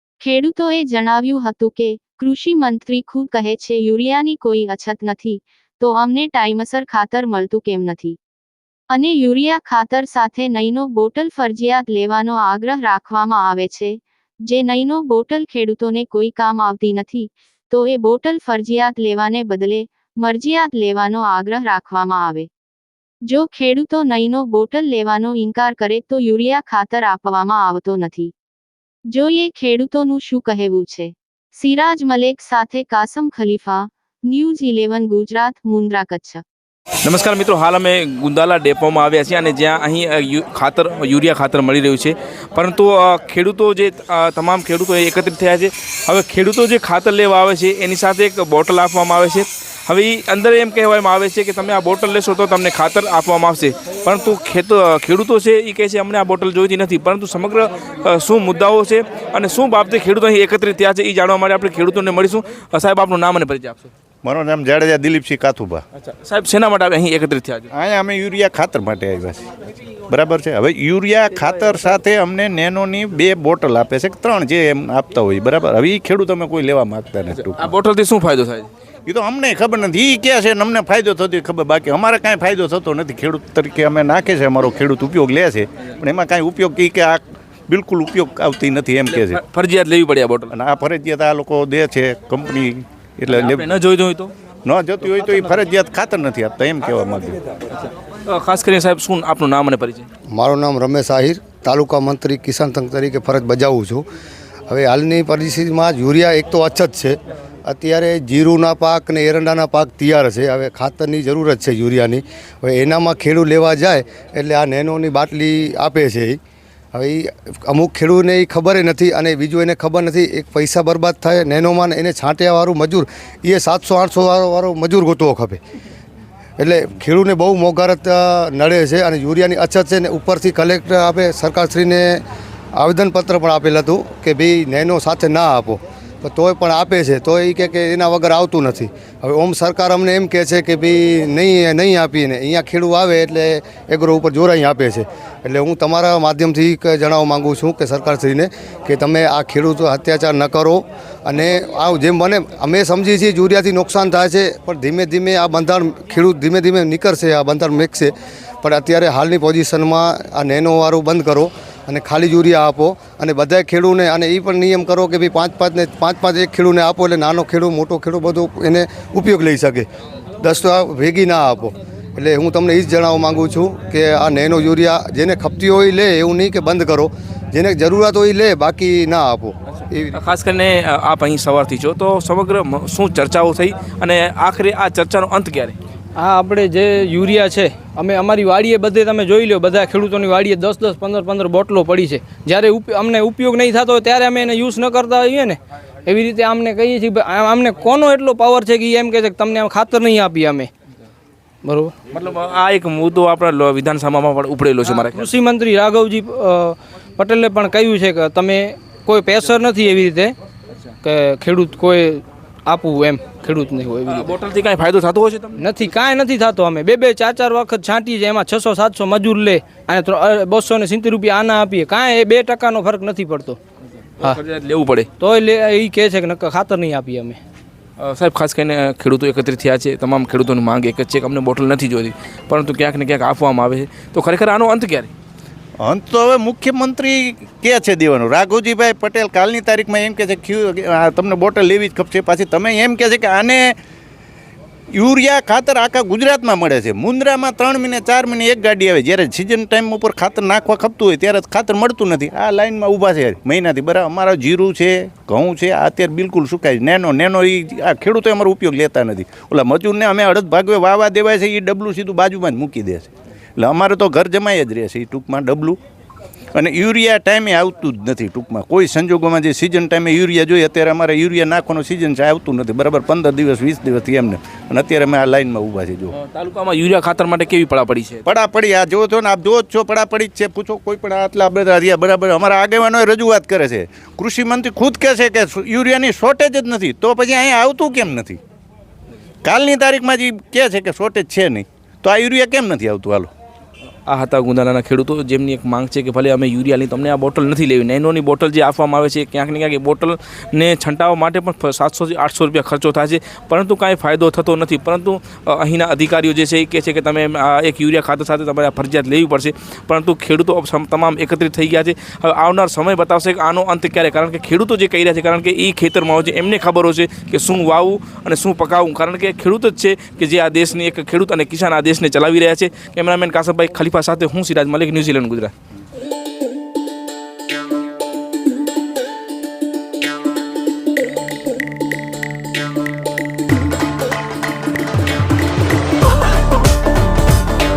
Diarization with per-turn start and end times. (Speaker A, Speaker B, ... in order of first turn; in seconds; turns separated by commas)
Speaker A: 0.2-8.2, Speaker A: 8.9-22.5, Speaker A: 23.3-28.3, Speaker A: 29.1-36.4, Speaker B: 37.0-63.9, Speaker C: 64.2-65.8, Speaker B: 66.0-67.7, Speaker C: 67.7-69.5, Speaker C: 70.1-77.7, Speaker B: 77.4-78.7, Speaker C: 79.1-89.4, Speaker B: 89.1-90.5, Speaker C: 90.5-93.7, Speaker B: 93.3-94.3, Speaker C: 94.7-97.4, Speaker B: 98.3-100.1, Speaker D: 100.3-104.0, Speaker D: 104.7-116.4, Speaker D: 116.9-125.6, Speaker D: 126.6-132.2, Speaker D: 132.7-169.9, Speaker D: 170.4-180.2, Speaker B: 180.1-185.8, Speaker E: 186.2-200.7, Speaker E: 201.6-201.9, Speaker B: 202.1-205.3, Speaker E: 204.8-210.3, Speaker E: 211.0-214.3, Speaker B: 214.1-215.7, Speaker E: 215.6-223.6, Speaker B: 224.2-225.1, Speaker E: 225.2-227.4, Speaker B: 228.0-235.1, Speaker C: 235.8-243.7, Speaker C: 244.9-265.8, Speaker C: 266.5-276.1, Speaker B: 276.1-278.2, Speaker C: 278.2-288.4, Speaker C: 289.4-293.3, Speaker B: 294.1-325.5